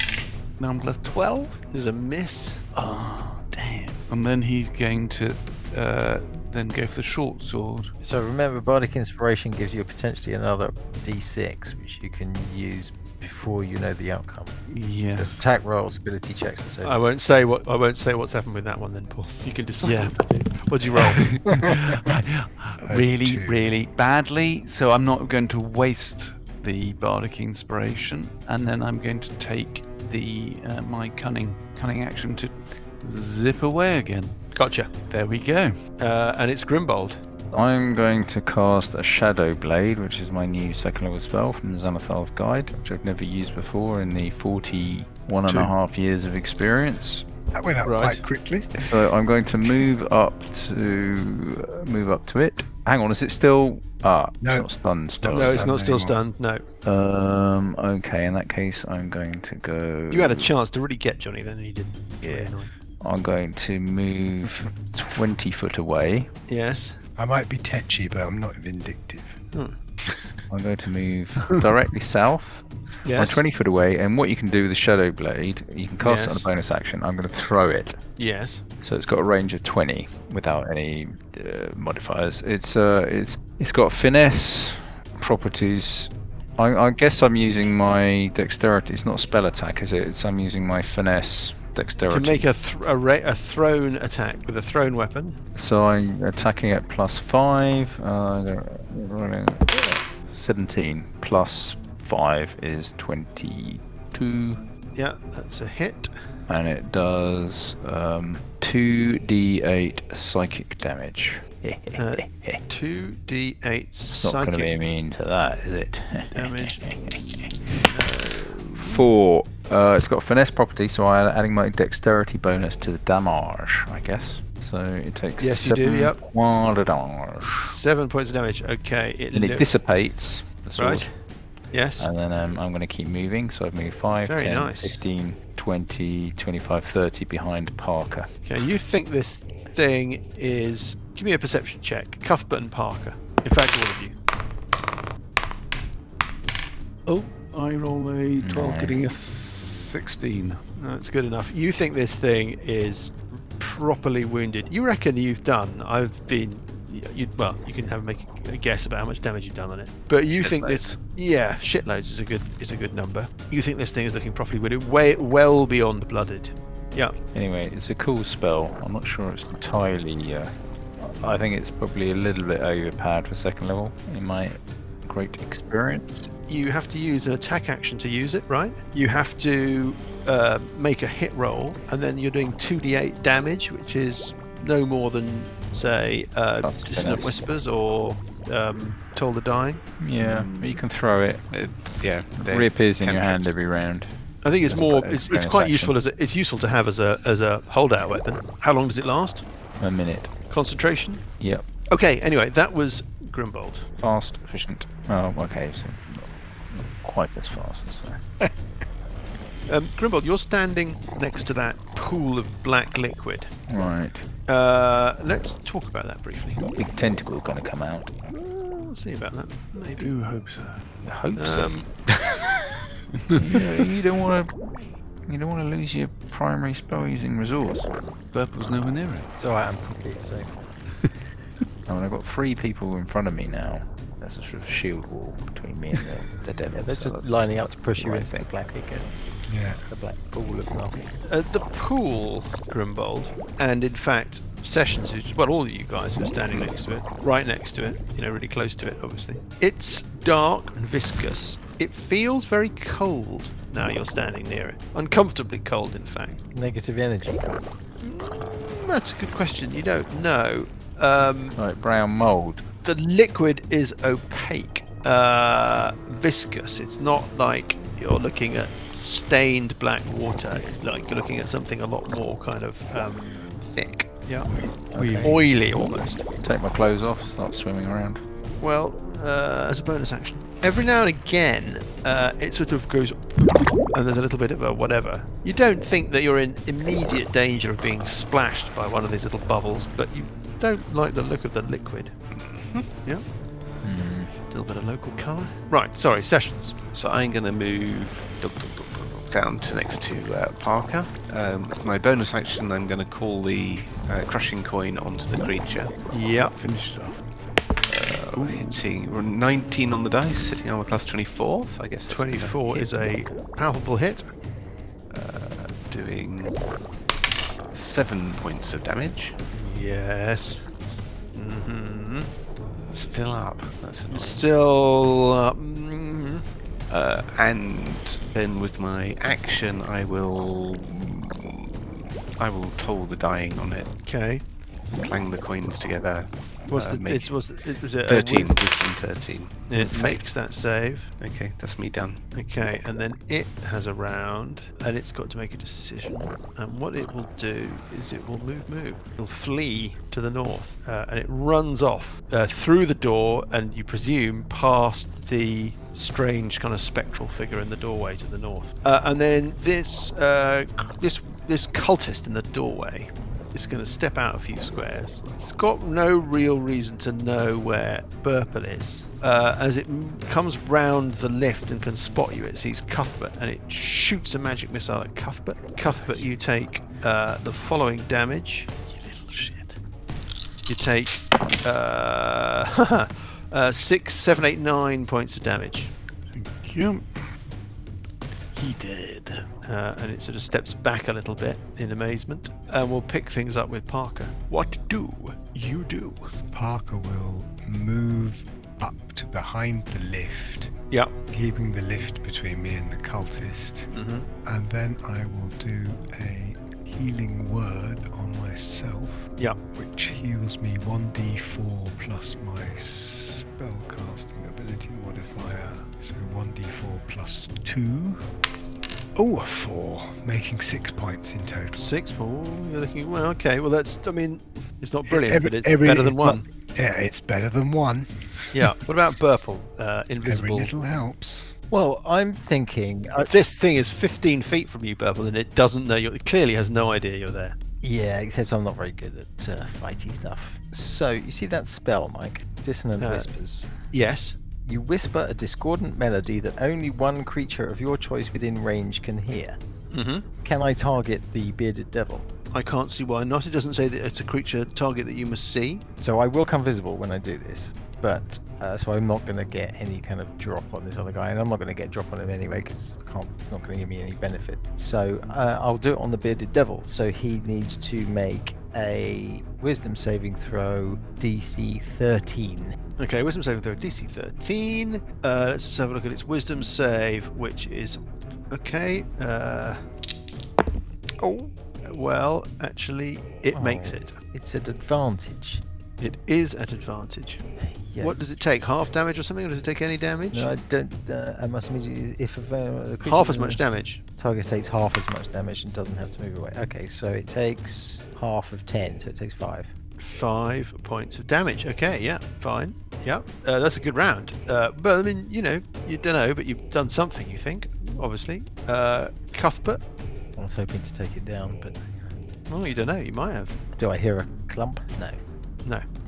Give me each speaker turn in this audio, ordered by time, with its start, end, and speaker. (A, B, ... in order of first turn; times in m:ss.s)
0:00.6-0:01.6 A
0:01.7-0:02.6 B
0:02.8-0:07.9 A
0:08.0-0:17.0 C
0:14.7-0:15.5 A
0:16.8-0:21.5 B
0:19.8-0:20.2 A
0:21.0-0:35.8 A
0:21.5-0:21.8 D
0:22.8-0:23.6 D
0:34.5-0:34.9 B
0:36.0-0:37.2 B
0:37.5-0:47.2 E
0:47.5-0:49.1 D
0:47.8-0:48.2 B
0:48.8-0:55.7 E
0:49.6-0:49.9 D
0:54.4-0:56.2 D
0:55.3-0:56.6 B
0:56.8-1:00.5 E
1:00.1-1:02.7 B
1:02.2-1:06.3 E
1:06.5-1:07.0 B
1:07.2-1:09.4 D
1:09.5-1:09.8 B
1:10.5-1:18.0 E
1:13.0-1:13.4 B
1:16.0-1:16.5 B
1:18.2-1:18.6 B
1:18.8-1:32.5 E
1:32.1-1:35.4 B
1:35.6-1:44.6 E
1:45.0-1:46.1 B
1:46.5-1:52.6 E
1:52.0-1:54.7 B
1:54.2-1:57.5 E
1:56.3-1:56.9 B
1:57.8-1:59.0 B
1:58.6-2:07.8 E
2:05.4-2:06.2 B
2:07.6-2:09.7 B
2:09.3-2:11.1 E
2:10.8-2:11.1 B
2:11.7-2:12.1 B
2:12.0-2:18.3 E
2:14.3-2:15.0 B
2:18.5-2:24.1 B
2:27.1-2:30.6 A
2:28.4-2:29.0 E
2:30.8-2:47.1 B
2:40.3-2:40.9 F
2:47.3-2:56.3 E
2:56.5-3:09.8 B
3:06.6-3:07.4 E
3:10.0-3:11.4 E
3:10.4-3:10.6 F
3:11.5-3:13.6 F
3:12.4-3:16.0 E
3:14.4-3:19.4 B
3:19.8-3:20.3 E
3:20.5-3:21.2 B
3:21.4-3:21.7 E
3:21.9-3:23.9 B
3:24.0-3:28.2 E
3:29.7-3:33.5 B
3:33.7-3:34.3 E
3:34.5-3:36.7 B
3:36.8-3:38.1 E
3:38.3-3:40.1 B
3:40.0-3:41.0 A
3:41.0-3:41.8 E
3:41.4-3:42.0 B
3:43.2-3:43.6 A
3:43.4-3:47.9 E
3:48.3-3:49.3 A
3:49.3-3:50.6 C
3:51.9-3:58.5 E
3:56.7-3:59.2 C
3:59.5-3:59.8 D
3:59.9-4:01.1 C
4:01.2-4:16.4 B
4:16.5-4:17.7 C
4:18.0-4:21.6 B
4:21.6-4:22.6 E
4:22.8-4:34.6 B
4:34.7-4:35.8 E
4:34.9-4:35.4 A
4:35.2-4:36.2 B
4:36.4-4:38.2 E
4:38.6-4:52.2 B
4:52.3-4:52.9 F
4:53.8-4:54.3 E
4:54.5-4:56.8 B
4:56.9-5:06.0 F
5:06.1-5:06.5 B
5:06.6-5:07.2 A
5:07.9-5:12.9 F
5:08.3-5:08.8 A
5:12.1-5:14.3 B
5:15.1-5:16.6 F
5:17.7-5:19.4 F
5:19.5-5:20.7 B
5:21.3-5:22.3 B
5:22.9-5:24.4 F
5:24.1-5:26.4 B
5:26.9-5:31.7 F
5:32.4-5:33.9 F
5:34.0-5:34.4 B
5:35.0-5:37.4 F
5:36.7-5:38.6 B
5:38.0-5:40.2 F
5:39.7-5:41.1 B
5:41.2-5:42.2 F
5:42.3-6:18.8 B
6:18.9-6:19.7 A
6:20.7-6:25.9 B
6:26.3-6:27.2 A
6:28.6-6:29.5 A
6:29.6-6:36.3 B
6:36.5-6:40.7 D
6:41.3-6:43.9 D
6:43.9-6:44.3 B
6:44.4-6:58.3 D
6:59.2-7:01.8 D
7:01.8-7:06.4 B
7:05.1-7:08.6 D
7:08.5-7:10.7 B
7:10.2-7:11.5 D
7:11.7-7:13.3 C
7:13.2-7:17.6 B
7:17.8-7:23.7 C
7:23.0-7:23.3 B
7:23.9-7:24.4 B
7:24.7-7:29.6 C
7:29.9-7:30.3 B
7:30.4-7:32.3 C
7:32.5-7:35.8 B
7:36.0-7:52.8 C
7:53.0-7:59.8 B
8:01.2-8:04.2 B
8:03.5-8:05.6 C
8:06.0-8:07.4 B
8:07.6-8:08.2 C
8:08.0-8:10.5 B
8:10.3-8:13.6 C
8:13.0-8:14.0 B
8:14.2-8:19.7 C
8:20.0-8:29.8 B
8:30.4-8:32.1 C
8:32.5-8:33.6 B
8:33.8-8:35.2 C